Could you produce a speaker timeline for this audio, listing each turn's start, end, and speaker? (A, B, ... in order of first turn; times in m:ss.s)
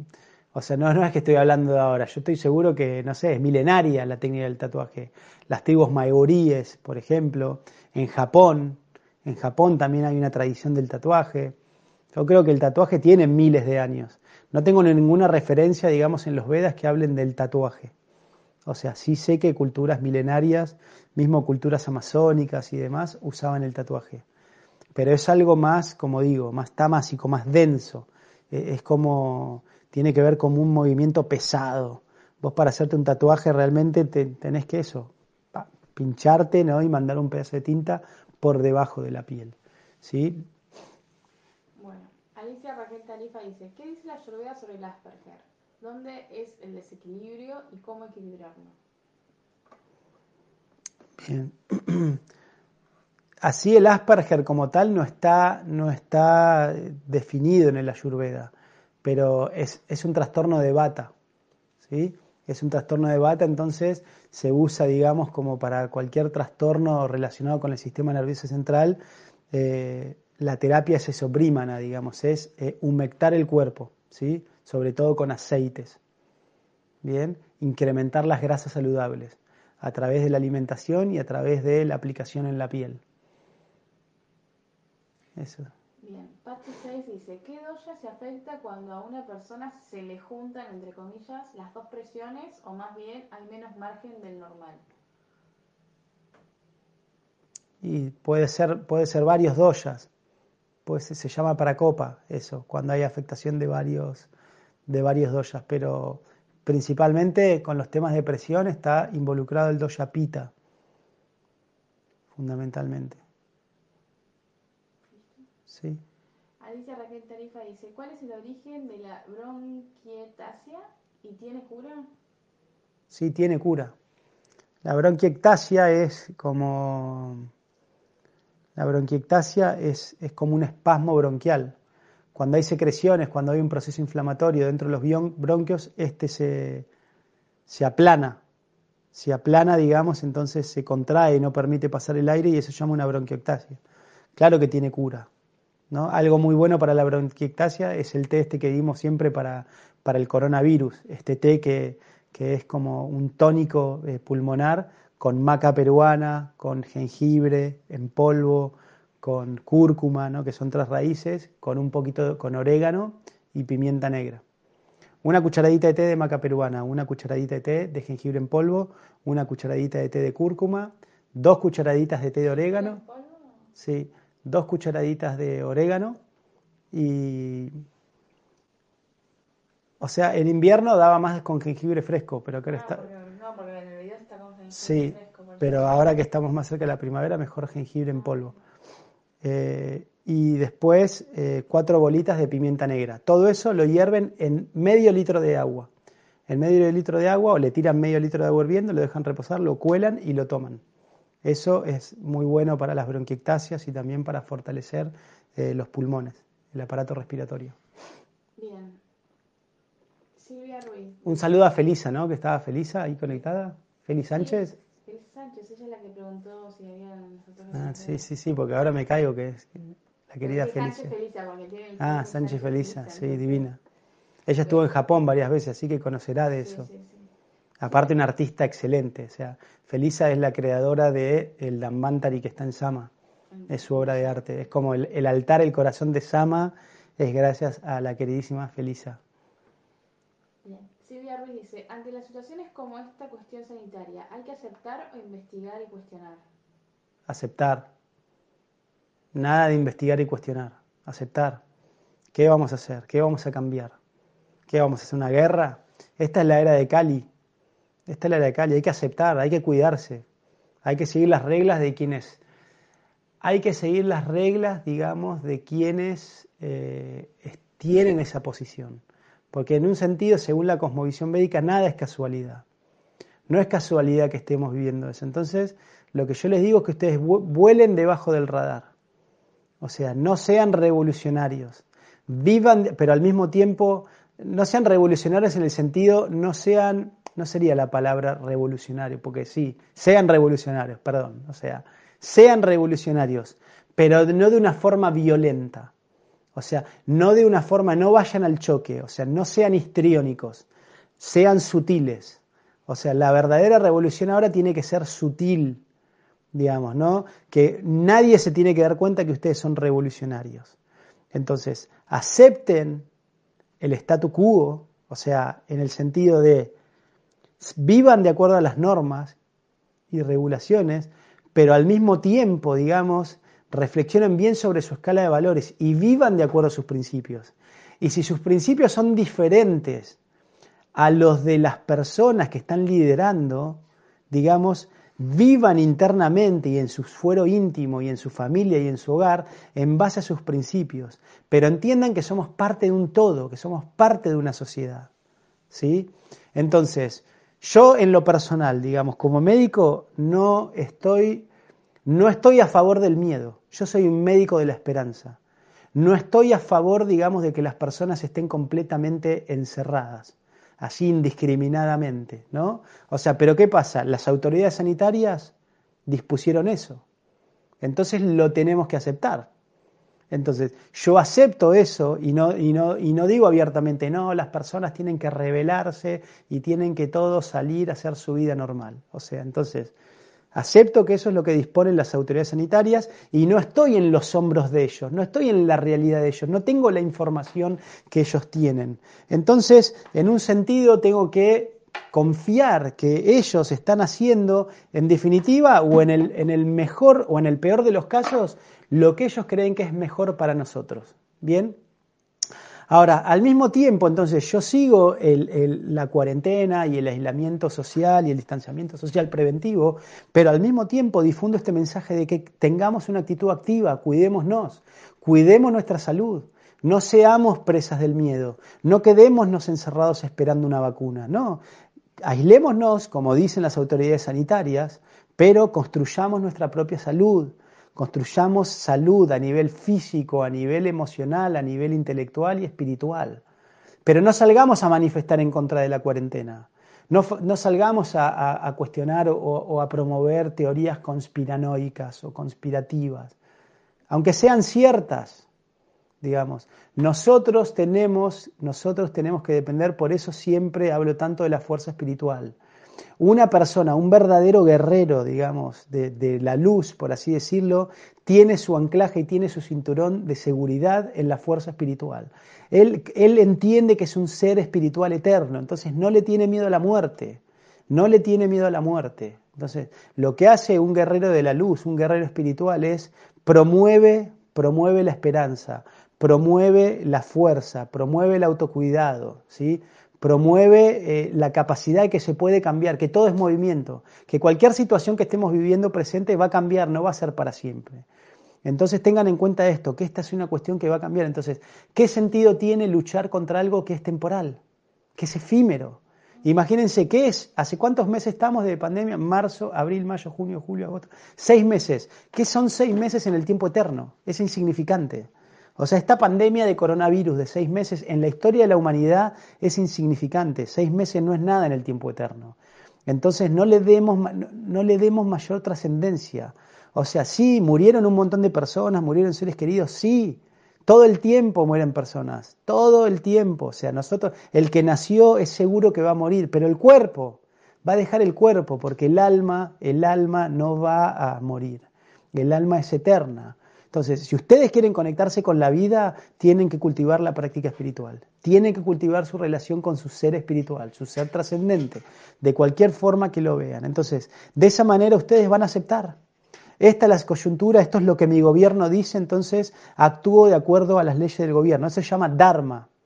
0:00.5-0:11.5 A
0:12.1-0:17.9 A
0:18.6-0:24.2 A
0:24.9-0:40.4 A
0:41.8-0:48.8 B
0:51.2-0:52.2 A
0:53.4-1:01.1 A
1:01.8-1:09.0 A
1:09.5-1:16.0 A
1:17.0-1:23.0 A
1:25.4-1:25.7 A
1:26.0-1:34.8 B
1:37.8-1:40.1 A
1:40.8-1:44.3 A
1:44.9-1:50.5 A
1:52.3-1:53.2 A
1:55.1-1:55.4 B
1:55.7-1:56.0 A
1:56.6-2:02.1 B
2:03.1-2:03.9 A
2:04.8-2:07.5 A
2:08.8-2:11.8 A
2:12.3-2:16.9 A
2:17.7-2:18.4 A
2:19.1-2:23.8 A
2:24.4-2:25.3 A
2:25.9-2:44.4 A
2:45.2-2:53.0 A
2:52.6-2:53.6 B
2:53.8-2:56.2 A
2:56.9-2:57.8 A
3:00.0-3:03.1 A
3:02.7-3:06.0 B
3:04.7-3:08.5 A
3:08.1-3:08.6 B
3:09.4-3:15.9 A
3:16.5-3:20.8 A
3:21.4-3:27.8 A
3:28.6-3:29.0 B
3:30.4-3:31.3 B
3:31.2-3:34.7 A
3:34.3-3:38.2 B
3:37.7-3:41.1 A
3:40.4-3:43.7 B
3:42.0-3:43.8 A
3:44.5-3:46.9 A
3:46.6-3:47.3 B
3:47.8-3:53.1 A
3:53.5-3:54.7 B
3:53.7-3:59.2 A
4:00.6-4:06.4 B
4:07.3-4:07.9 A
4:09.3-4:11.6 A
4:12.3-4:13.9 A
4:14.7-4:17.3 A
4:18.1-4:20.2 A
4:20.8-4:22.4 A
4:23.4-4:32.6 A
4:33.5-4:38.9 A
4:39.8-4:55.9 A
4:56.5-5:00.6 A
5:01.2-5:05.8 A
5:06.5-5:10.7 A
5:11.3-5:13.0 A
5:13.8-5:16.7 A
5:17.6-5:19.4 A
5:20.1-5:30.2 A
5:30.9-5:45.1 A
5:45.7-5:51.5 A
5:52.0-5:55.4 A
5:55.9-6:05.5 A
6:06.1-6:07.0 A
6:07.8-6:09.5 A
6:10.3-6:19.9 A
6:20.5-6:41.8 A
6:42.9-7:01.6 A
7:02.2-7:13.4 A
7:14.0-7:23.3 A
7:24.1-7:25.4 A
7:26.2-7:32.6 A
7:33.2-8:08.0 A
8:08.6-8:14.6 A
8:15.2-9:06.2 A
9:06.8-9:12.9 A